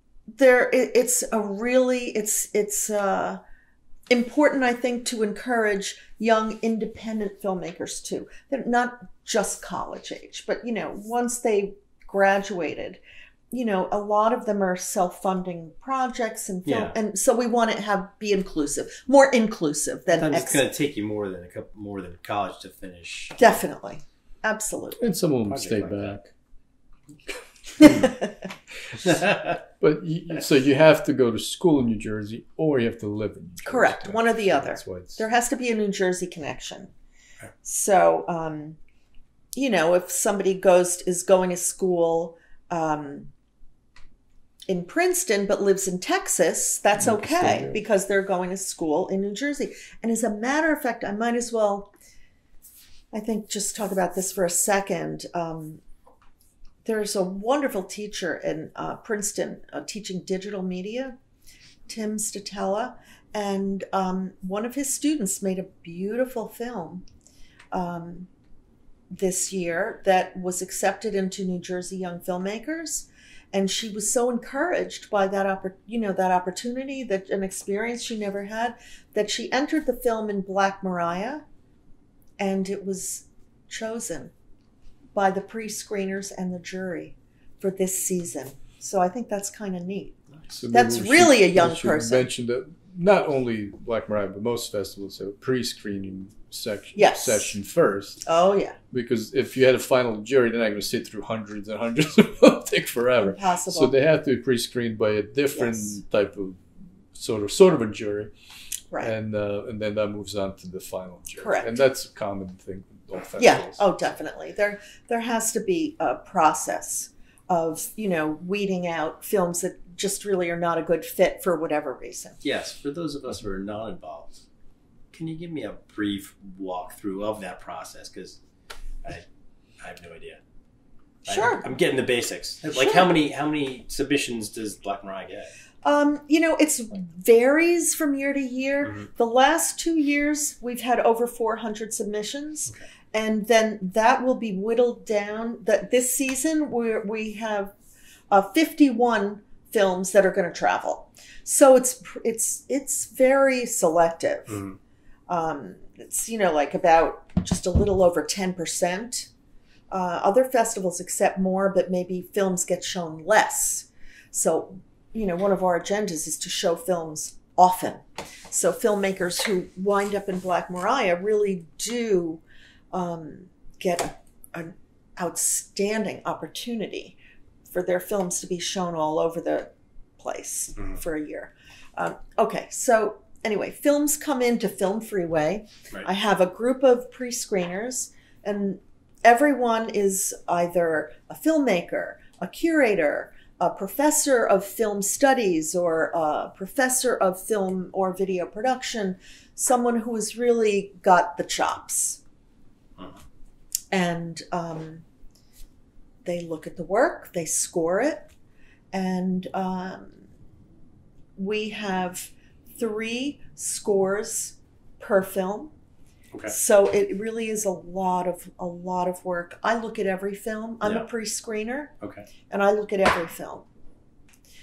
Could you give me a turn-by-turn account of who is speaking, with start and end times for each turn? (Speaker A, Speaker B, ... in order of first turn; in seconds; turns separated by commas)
Speaker A: 0.3-3.4, Speaker A: 4.1-13.0, Speaker A: 13.5-20.7, Speaker B: 16.7-16.9, Speaker B: 20.1-23.6, Speaker A: 23.4-25.0, Speaker C: 25.0-26.3, Speaker B: 25.5-26.2, Speaker C: 27.8-28.1, Speaker A: 27.8-28.3, Speaker C: 28.9-29.2, Speaker B: 29.0-29.6, Speaker C: 29.8-35.2, Speaker A: 33.6-36.9, Speaker A: 37.6-38.8, Speaker A: 39.5-43.3, Speaker A: 44.7-51.9, Speaker C: 47.0-47.8, Speaker A: 53.1-55.8, Speaker A: 56.9-61.2, Speaker A: 61.9-67.0, Speaker A: 67.7-68.3, Speaker A: 69.1-81.4, Speaker A: 82.4-84.3, Speaker A: 85.2-90.2, Speaker C: 90.5-98.2, Speaker A: 90.7-92.3, Speaker A: 97.0-97.5, Speaker A: 98.2-98.8, Speaker C: 98.9-106.6, Speaker A: 103.2-103.9, Speaker A: 105.5-106.0, Speaker C: 107.1-108.3, Speaker C: 109.0-114.1, Speaker A: 111.4-111.8, Speaker A: 113.4-122.4, Speaker B: 122.4-124.5, Speaker B: 125.1-128.4, Speaker B: 129.8-130.4, Speaker B: 131.3-135.5, Speaker A: 131.3-131.7, Speaker A: 132.7-133.1, Speaker A: 135.8-147.7, Speaker A: 148.3-154.6, Speaker B: 154.5-154.8, Speaker A: 155.3-159.3, Speaker A: 159.9-202.2, Speaker A: 203.9-205.0, Speaker A: 206.2-208.3, Speaker A: 208.9-210.2, Speaker A: 211.4-215.7, Speaker A: 216.5-221.9, Speaker B: 222.0-222.3, Speaker A: 222.5-223.7